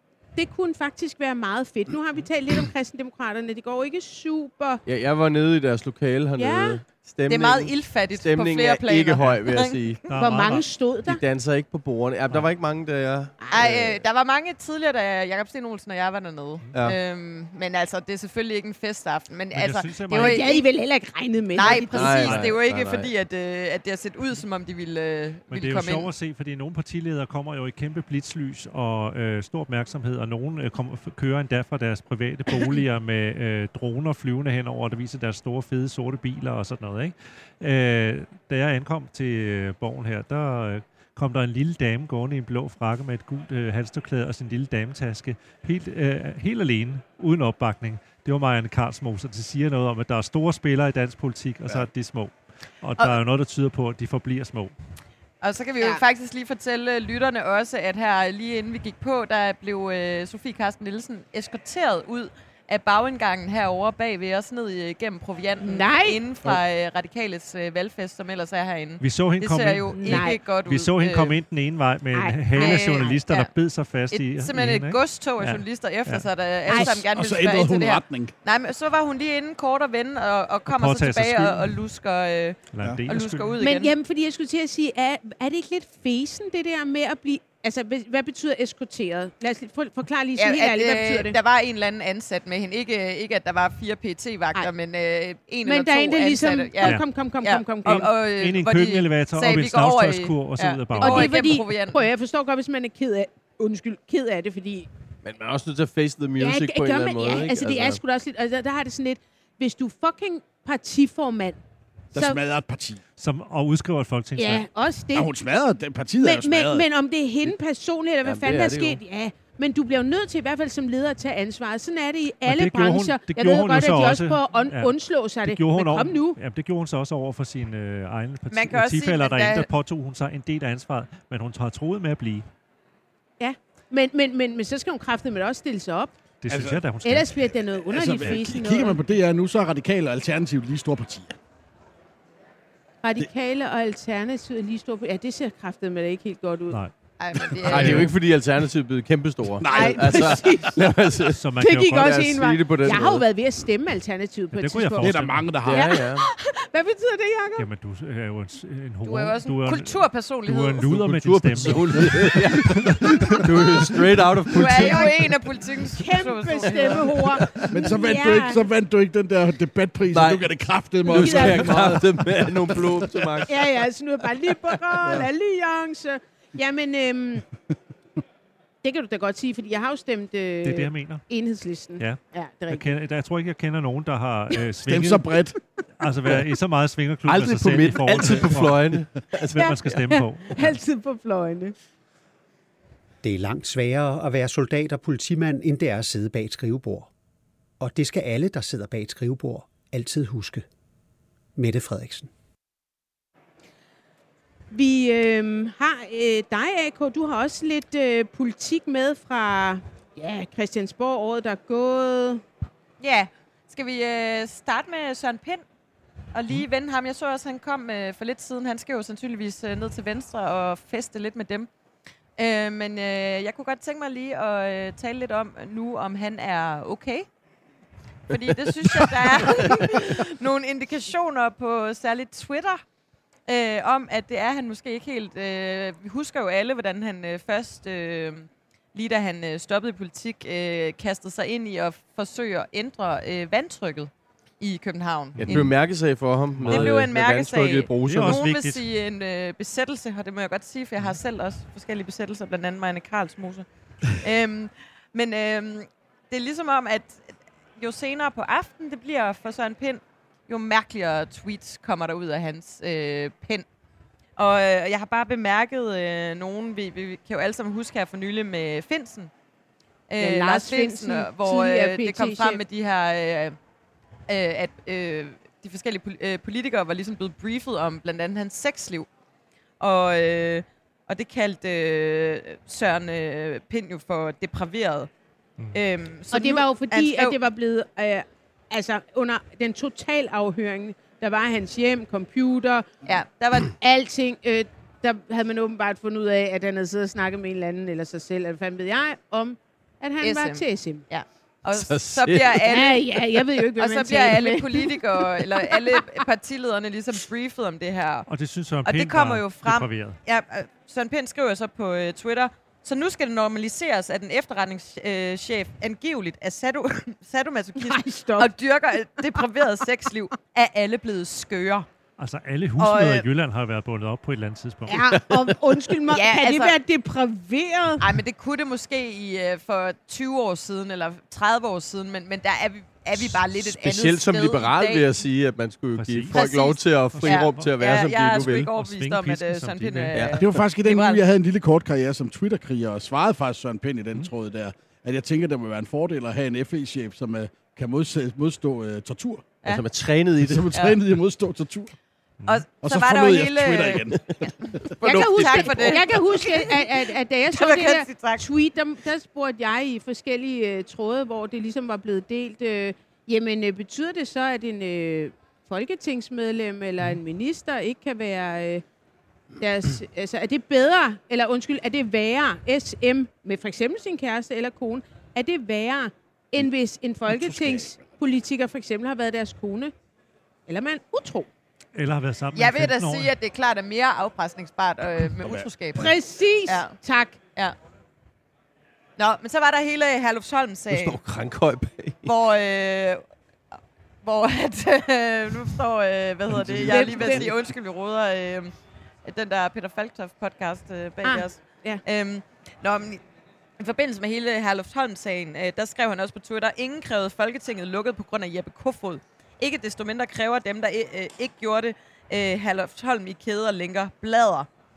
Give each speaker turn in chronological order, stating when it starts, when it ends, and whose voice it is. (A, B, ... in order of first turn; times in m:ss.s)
0:00.4-0:04.8 A
0:04.8-0:10.1 B
0:06.4-0:06.8 A
0:07.3-0:09.8 C
0:10.1-0:10.7 D
0:10.2-0:11.2 A
0:11.0-0:14.0 B
0:13.5-0:20.7 C
0:16.7-0:17.0 B
0:19.5-0:20.5 D
0:20.1-0:22.3 A
0:21.5-0:26.1 C
0:21.7-0:23.2 B
0:25.5-0:54.7 D
0:55.4-1:11.4 C
1:05.6-1:06.2 A
1:09.0-1:16.3 D
1:09.9-1:10.4 A
1:12.1-1:13.2 A
1:12.5-1:13.5 C
1:14.1-1:23.9 C
1:16.7-1:17.0 A
1:16.7-1:18.3 E
1:20.7-1:21.8 D
1:22.7-1:23.6 D
1:23.6-1:31.4 A
1:30.4-1:42.1 C
1:35.6-1:38.1 A
1:36.8-1:37.2 D
1:37.8-1:41.4 D
1:41.0-1:44.9 A
1:45.2-1:48.0 B
1:46.4-1:51.6 A
1:52.1-1:53.0 E
1:52.1-1:52.4 A
1:53.2-1:54.7 D
1:54.4-1:55.3 A
1:55.1-1:56.9 E
1:56.2-2:06.4 A
1:58.2-1:59.0 B
2:02.5-2:12.5 D
2:08.5-2:09.7 C
2:13.4-2:16.1 A
2:16.4-2:17.5 D
2:16.5-2:16.8 E
2:17.0-2:19.0 A
2:17.9-2:21.4 E
2:23.0-2:26.8 A
2:27.2-2:28.1 C
2:27.5-2:28.0 E
2:27.6-2:33.3 B
2:27.7-2:28.1 D
2:29.6-2:30.8 E
2:29.7-2:30.7 A
2:31.3-2:32.3 D
2:31.6-2:37.7 A
2:34.5-2:35.7 D
2:35.0-2:35.9 E
2:35.6-2:36.3 B
2:37.6-2:44.9 D
2:39.0-2:40.9 C
2:40.9-2:45.4 B
2:42.8-2:43.4 E
2:44.5-2:47.2 C
2:45.9-2:48.6 A
2:46.7-2:47.8 B
2:47.7-2:53.5 E
2:50.1-2:50.5 B
2:51.1-2:53.5 B
2:51.1-2:52.0 A
2:53.5-2:57.4 A
2:58.8-3:02.8 A
3:00.6-3:01.3 D
3:02.0-3:05.5 D
3:04.8-3:05.6 E
3:06.0-3:10.8 D
3:07.2-3:09.7 B
3:09.6-3:11.8 A
3:13.2-3:17.1 F
3:17.8-3:20.6 F
3:21.6-3:22.3 F
3:24.7-3:32.4 A
3:33.0-3:35.6 C
3:36.3-3:41.7 C
3:42.4-3:47.3 C
3:48.3-3:52.8 C
3:49.5-3:49.9 B
3:53.5-4:05.7 C
4:05.4-4:08.5 B
4:05.4-4:05.7 D
4:06.6-4:07.0 D
4:06.7-4:13.7 C
4:08.0-4:08.8 D
4:14.2-4:23.6 C
4:24.4-4:29.3 C
4:30.1-4:33.6 C
4:30.2-4:32.6 A
4:34.3-4:39.1 C
4:39.8-4:45.1 C
4:45.7-4:47.4 C
4:46.3-4:52.9 A
4:53.0-4:53.7 C
4:53.8-5:01.0 A
5:00.2-5:03.1 C
5:01.7-5:02.8 B
5:02.6-5:06.2 A
5:03.8-5:08.3 C
5:08.3-5:10.2 D
5:08.8-5:21.9 C
5:17.8-5:19.6 A
5:22.2-5:25.1 D
5:22.8-5:23.3 C
5:24.9-5:28.1 A
5:25.1-5:25.5 B
5:26.1-5:26.8 C
5:28.0-5:35.2 C
5:33.2-5:38.7 B
5:36.0-5:36.4 D
5:36.3-5:41.2 C
5:37.1-5:40.3 D
5:40.1-5:40.7 B
5:40.4-5:49.6 E
5:49.6-5:50.7 B
5:50.4-5:51.9 E
5:50.7-5:51.0 C
5:52.4-5:56.8 C
5:52.8-5:56.0 E
5:55.0-6:08.8 A
5:57.5-5:58.5 C
6:09.6-6:19.9 A
6:17.3-6:17.8 E
6:20.7-6:21.5 A
6:22.0-6:23.3 D
6:22.6-6:26.2 C
6:26.0-6:27.4 A
6:26.7-6:27.0 C
6:29.2-6:31.2 C
6:30.9-6:32.3 B
6:32.2-6:33.2 C
6:34.2-6:38.7 C
6:36.5-6:37.6 B
6:36.8-6:37.5 A
6:37.2-6:37.5 E
6:39.2-6:43.2 C
6:41.2-6:42.0 A
6:43.8-6:54.7 C